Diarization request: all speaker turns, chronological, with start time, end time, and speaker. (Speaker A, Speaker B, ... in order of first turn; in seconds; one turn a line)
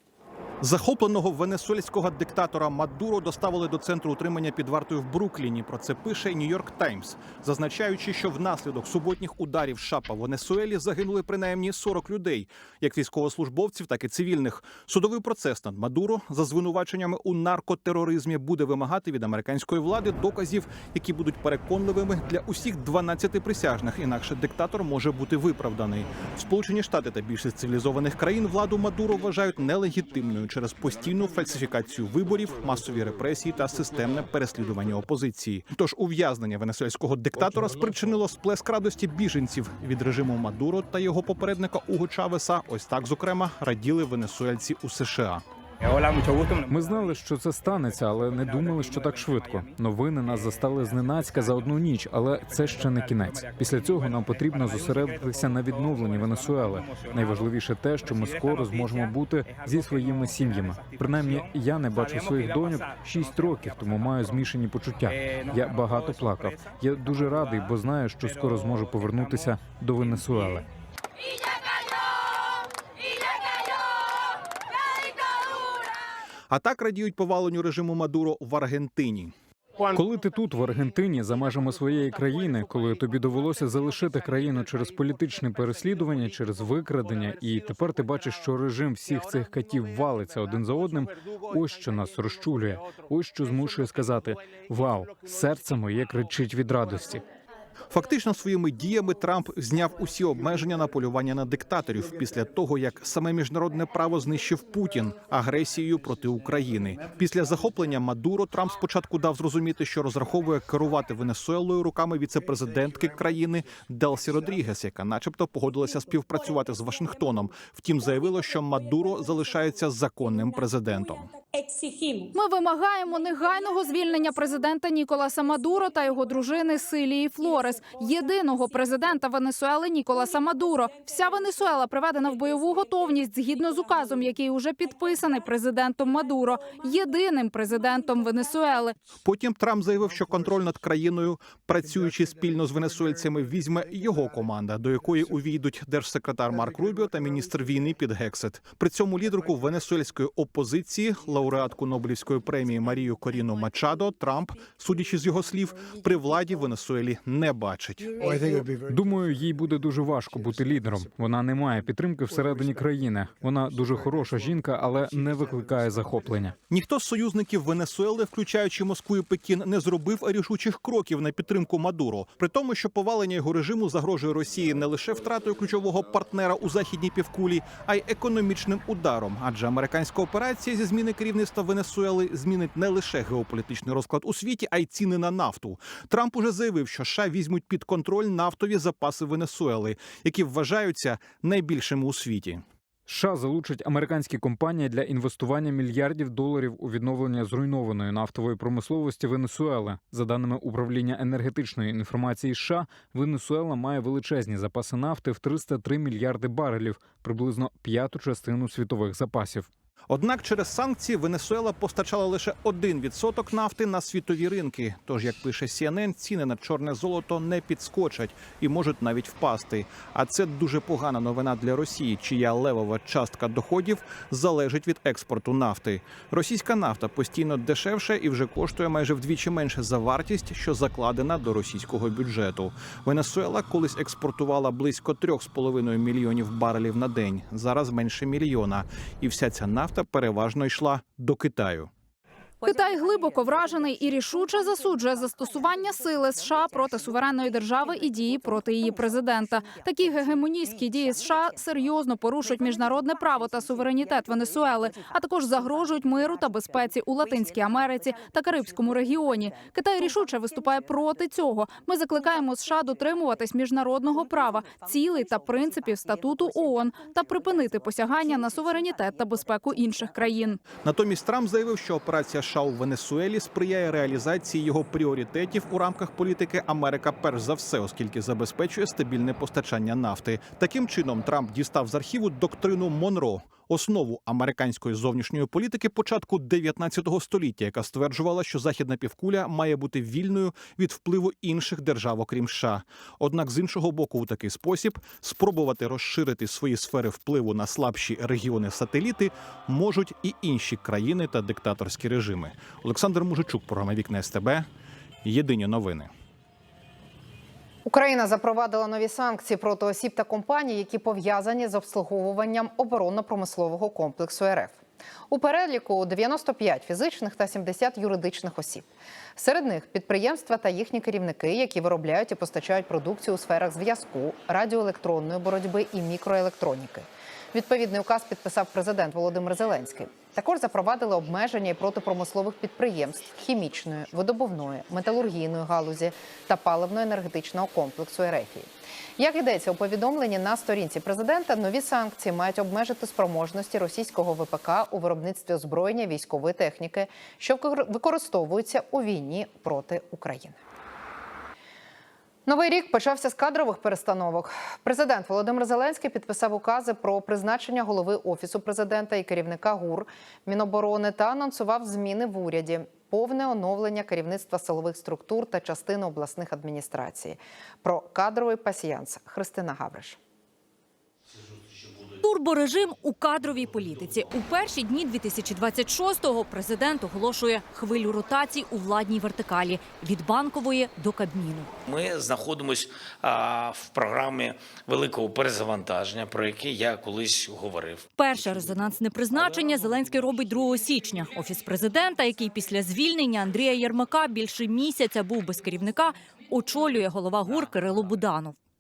Speaker A: 0.6-45.4
Speaker B: 46.7-70.7
Speaker A: 76.5-79.3
Speaker B: 79.9-97.2
Speaker A: 97.9-121.3
Speaker C: 122.3-138.9
Speaker A: 139.2-158.3
Speaker B: 158.8-166.6
Speaker A: 166.7-192.6
Speaker B: 193.1-209.7
Speaker A: 210.1-241.9
Speaker C: 242.6-270.6
Speaker A: 270.8-304.7
Speaker A: 305.2-306.1
Speaker D: 307.9-350.6
Speaker D: 352.5-370.2
Speaker E: 372.2-381.7
Speaker F: 381.9-388.1
Speaker E: 388.2-398.6